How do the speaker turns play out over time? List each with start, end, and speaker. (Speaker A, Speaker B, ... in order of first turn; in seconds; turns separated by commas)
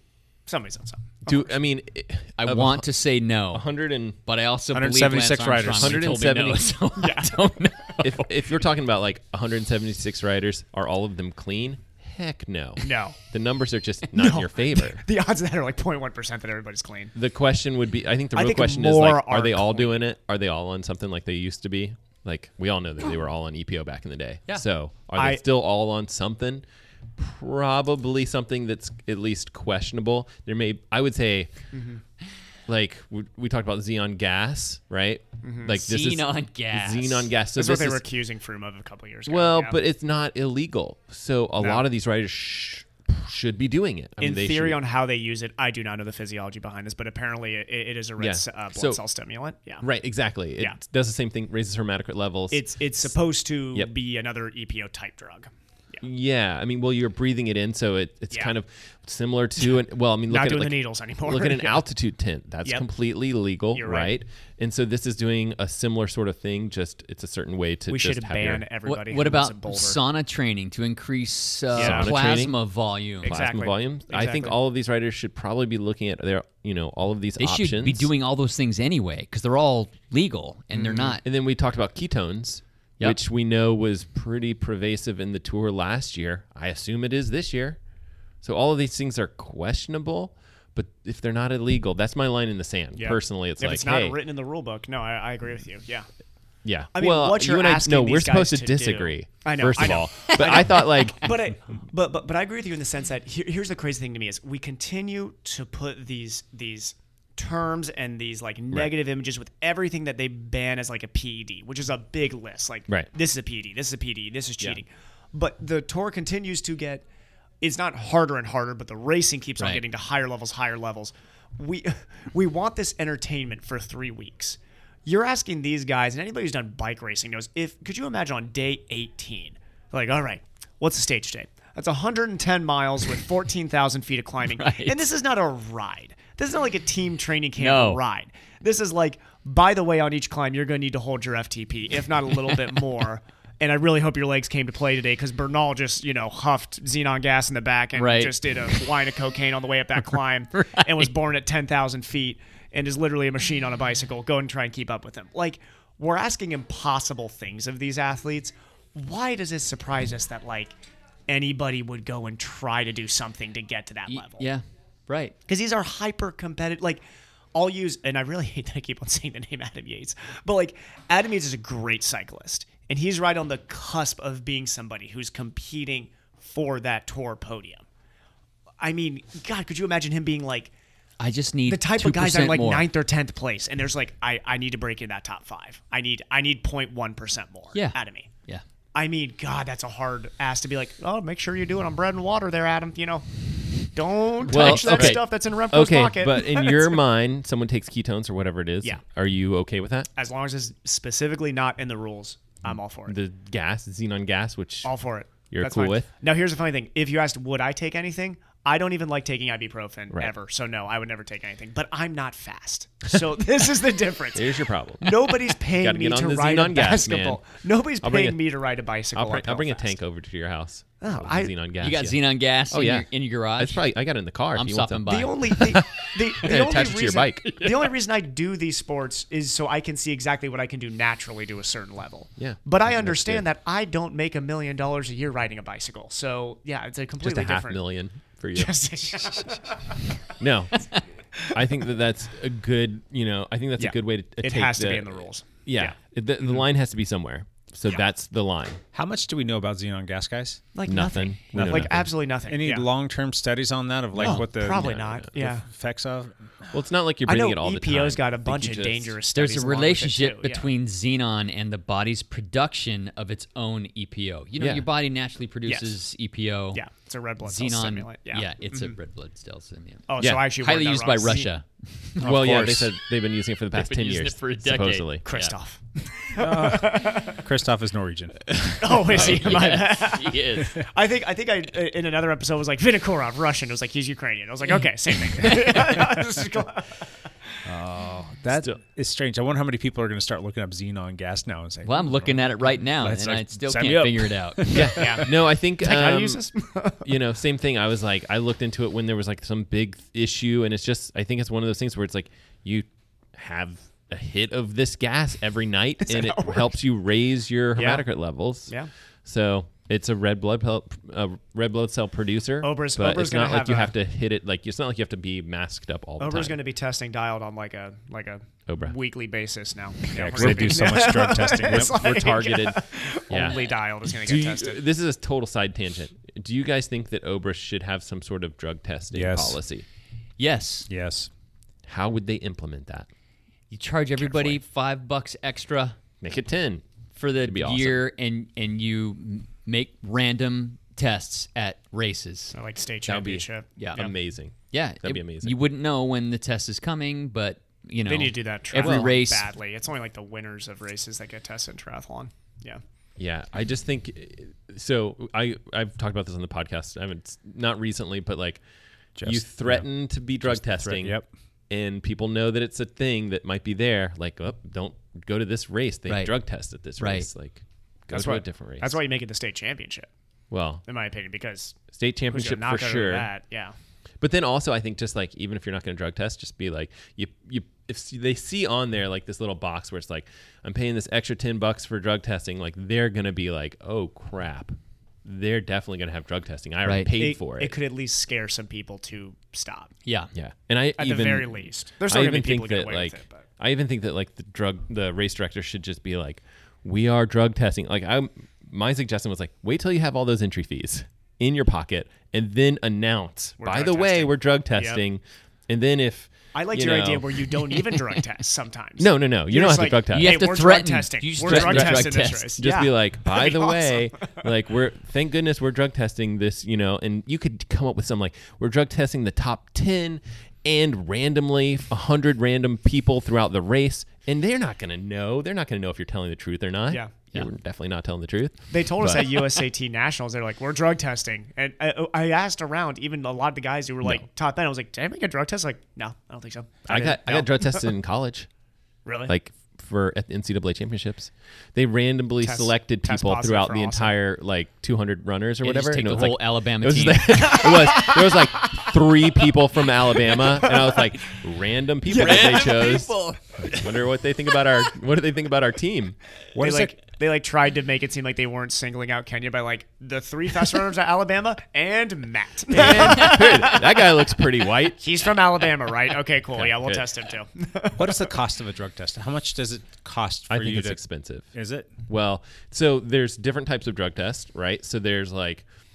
Speaker A: 0.5-1.5, Speaker B: 1.2-2.9, Speaker C: 2.4-3.7, Speaker B: 3.5-4.2, Speaker C: 4.2-8.3, Speaker D: 4.7-6.1, Speaker B: 5.7-6.7, Speaker A: 7.0-7.5, Speaker B: 8.0-15.0, Speaker A: 12.8-13.2, Speaker A: 14.1-17.1, Speaker B: 17.1-26.6, Speaker A: 18.3-20.0, Speaker A: 25.1-25.4, Speaker B: 27.2-31.5, Speaker A: 31.7-32.0, Speaker B: 32.7-38.1, Speaker A: 35.4-35.8, Speaker C: 35.8-37.3, Speaker A: 37.5-39.8, Speaker B: 39.2-44.8, Speaker A: 41.6-41.8, Speaker A: 44.2-49.8, Speaker B: 48.2-49.0, Speaker B: 49.8-53.1, Speaker A: 52.5-56.0, Speaker B: 56.0-68.7, Speaker A: 60.3-61.8, Speaker A: 63.7-64.1, Speaker A: 67.9-70.0, Speaker C: 68.8-73.3, Speaker A: 71.7-72.1, Speaker B: 71.8-72.5, Speaker B: 73.2-78.1, Speaker A: 73.2-74.6, Speaker C: 77.4-81.2, Speaker A: 80.7-81.2, Speaker B: 81.2-87.8, Speaker B: 88.4-94.2, Speaker A: 93.0-96.1, Speaker B: 96.6-101.3, Speaker A: 96.9-117.0, Speaker A: 117.6-160.7, Speaker C: 134.5-135.0, Speaker C: 137.6-138.0, Speaker C: 147.9-148.3, Speaker C: 150.6-151.1, Speaker A: 161.3-164.5, Speaker C: 164.1-165.3, Speaker A: 165.5-167.0, Speaker A: 167.5-177.8, Speaker A: 178.8-180.7, Speaker C: 181.2-182.9, Speaker A: 181.7-188.3, Speaker C: 187.7-188.6, Speaker A: 188.9-193.2, Speaker A: 193.8-197.0, Speaker B: 194.5-200.1, Speaker C: 194.5-195.2, Speaker A: 200.1-203.2, Speaker B: 202.6-204.9, Speaker A: 204.8-219.9, Speaker B: 205.5-206.1, Speaker B: 214.3-218.4, Speaker B: 219.1-227.7, Speaker A: 221.0-221.5, Speaker C: 221.8-223.9, Speaker C: 224.5-225.3, Speaker A: 225.1-237.8, Speaker B: 232.4-233.4, Speaker B: 237.2-238.8, Speaker A: 238.5-239.9, Speaker B: 240.4-240.9, Speaker B: 241.5-248.8, Speaker A: 243.8-246.6, Speaker D: 248.9-250.7, Speaker A: 250.7-252.9, Speaker B: 250.8-252.1, Speaker D: 251.5-256.7, Speaker B: 254.1-255.3, Speaker A: 254.2-255.7, Speaker B: 256.7-259.2, Speaker A: 257.2-260.7, Speaker C: 259.3-266.8, Speaker B: 264.6-264.8, Speaker A: 265.6-265.9, Speaker A: 266.7-268.9, Speaker C: 267.4-272.4, Speaker A: 270.1-271.5, Speaker B: 270.2-270.4, Speaker B: 272.2-275.2, Speaker D: 272.2-272.9, Speaker C: 273.7-275.5, Speaker A: 275.2-277.4, Speaker D: 276.4-278.5, Speaker C: 278.5-280.8, Speaker A: 278.8-287.1, Speaker C: 285.4-285.7, Speaker D: 287.6-295.1, Speaker C: 291.8-294.8, Speaker B: 294.7-296.5, Speaker A: 294.9-297.1, Speaker B: 297.0-308.7, Speaker A: 306.0-306.7, Speaker A: 307.7-308.1, Speaker B: 309.2-316.6, Speaker A: 312.6-313.9, Speaker A: 316.2-324.8, Speaker B: 318.7-318.9, Speaker D: 320.1-322.0, Speaker B: 320.3-321.0, Speaker B: 321.6-329.9, Speaker D: 329.1-329.6, Speaker C: 330.4-330.9, Speaker D: 330.9-331.3, Speaker B: 331.9-333.1, Speaker C: 333.7-336.0, Speaker B: 334.2-334.6, Speaker B: 336.2-336.8, Speaker C: 337.1-342.5, Speaker B: 337.4-338.0, Speaker A: 342.5-344.1, Speaker B: 343.1-345.5, Speaker C: 343.8-344.0, Speaker C: 344.7-349.5, Speaker A: 348.1-352.8, Speaker B: 348.8-349.1, Speaker B: 353.2-358.6, Speaker D: 359.2-359.9, Speaker B: 359.2-369.0, Speaker D: 360.4-361.3, Speaker C: 366.1-367.3, Speaker A: 368.1-370.1, Speaker B: 370.5-370.8, Speaker A: 370.8-371.8, Speaker B: 371.9-373.3, Speaker A: 372.3-373.7, Speaker B: 374.2-387.7, Speaker A: 387.2-389.9, Speaker C: 390.0-390.3, Speaker B: 390.3-407.8, Speaker A: 391.0-393.4, Speaker A: 403.6-405.0, Speaker A: 406.5-414.4, Speaker B: 409.0-410.5, Speaker C: 410.1-412.6, Speaker B: 411.4-429.4, Speaker A: 428.7-437.9, Speaker B: 436.9-438.5, Speaker A: 439.0-439.3, Speaker B: 439.3-456.2, Speaker A: 442.4-444.1, Speaker C: 445.6-447.8, Speaker A: 447.5-448.9, Speaker A: 450.6-451.0, Speaker A: 452.1-452.7, Speaker C: 452.1-453.9, Speaker D: 456.5-456.9, Speaker A: 456.6-464.0, Speaker B: 462.7-465.0, Speaker A: 465.0-468.3, Speaker B: 466.5-467.1, Speaker D: 468.0-471.0, Speaker B: 470.5-471.5, Speaker D: 471.5-471.9, Speaker B: 472.1-475.6